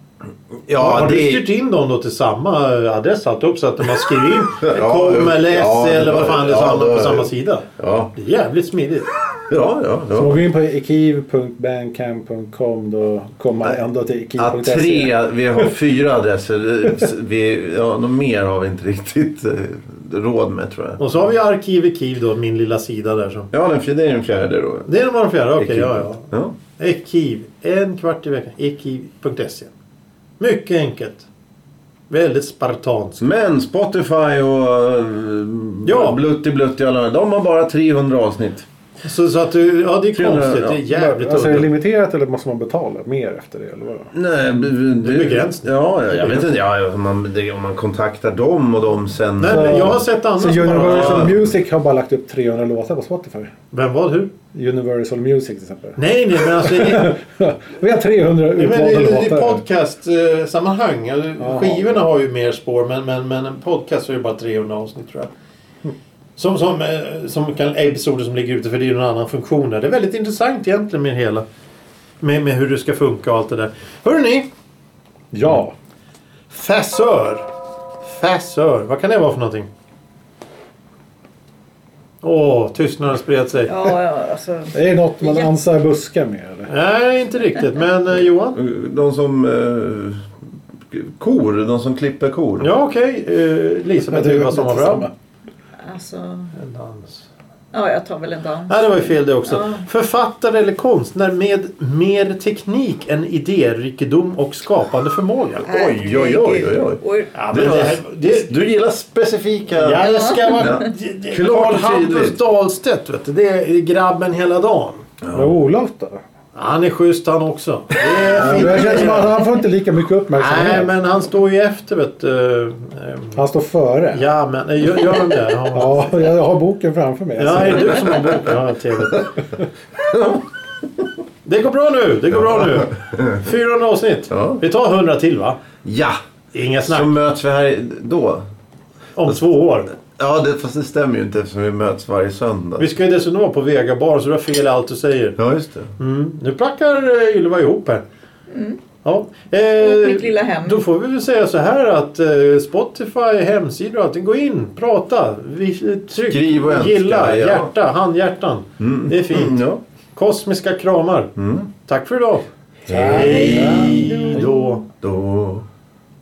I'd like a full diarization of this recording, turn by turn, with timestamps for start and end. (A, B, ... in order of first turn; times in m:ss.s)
0:00.7-0:01.4 A
0:00.8-0:09.1 B
0:04.6-0:08.1 A
0:09.5-0:10.4 A
0:10.1-0:15.7 C
0:14.4-0:21.0 A
0:21.0-0:23.5 B
0:23.5-0:24.9 A
0:24.8-0:29.7 B
0:25.6-0:26.6 A
0:30.4-0:31.2 B
0:32.1-0:33.2 B
0:33.2-0:38.6 A
0:35.8-0:36.2 B
0:39.0-0:41.7 B
0:40.1-0:40.8 A
0:40.9-0:44.1 C
0:44.1-0:50.0 A
0:45.0-0:46.5 B
0:49.4-0:51.3 B
0:49.4-0:53.5 C
0:50.6-0:51.4 A
0:53.7-0:54.3 B
0:54.5-0:59.6 C
0:56.0-0:57.1 B
0:58.6-1:05.3 B
1:01.4-1:01.8 C
1:06.4-1:11.4 B
1:12.2-1:14.5 B
1:15.3-1:15.7 C
1:16.5-1:17.5 B
1:18.0-1:19.7 B
1:22.2-1:23.9 B
1:23.6-1:25.5 D
1:24.7-1:26.7 C
1:26.7-1:28.6 B
1:28.5-1:30.2 A
1:30.9-1:32.7 A
1:32.6-1:35.1 B
1:34.0-1:35.1 C
1:35.8-1:36.5 D
1:36.5-1:37.3 B
1:37.7-1:39.8 D
1:38.7-1:45.6 B
1:45.6-1:52.4 A
1:45.6-1:47.3 D
1:47.3-1:48.5 B
1:49.7-1:55.0 B
1:50.1-1:50.8 D
1:55.2-1:55.5 A
1:55.3-1:56.2 C
1:56.5-1:59.4 B
1:58.3-1:59.2 A
1:58.3-2:00.9 C
2:00.4-2:03.4 B
2:03.3-2:04.2 C
2:04.1-2:06.1 B
2:05.7-2:08.2 C
2:07.4-2:09.3 B
2:10.0-2:10.5 A
2:11.4-2:15.6 B
2:12.6-2:13.4 A
2:14.3-2:14.6 A
2:15.8-2:16.2 A
2:16.5-2:17.1 B
2:16.8-2:18.5 A
2:19.2-2:19.9 B
2:20.0-2:22.9 A
2:22.8-2:25.4 B
2:25.4-2:25.9 A
2:26.0-2:28.0 B
2:28.5-2:28.8 D
2:29.0-2:41.3 B
2:29.8-2:30.8 D
2:36.3-2:37.7 A
2:38.8-2:39.8 A
2:41.4-2:41.7 A
2:41.8-2:42.5 B
2:42.8-2:43.9 A
2:42.9-2:44.5 C
2:43.0-2:44.8 B
2:43.1-2:44.8 D
2:45.0-2:45.6 A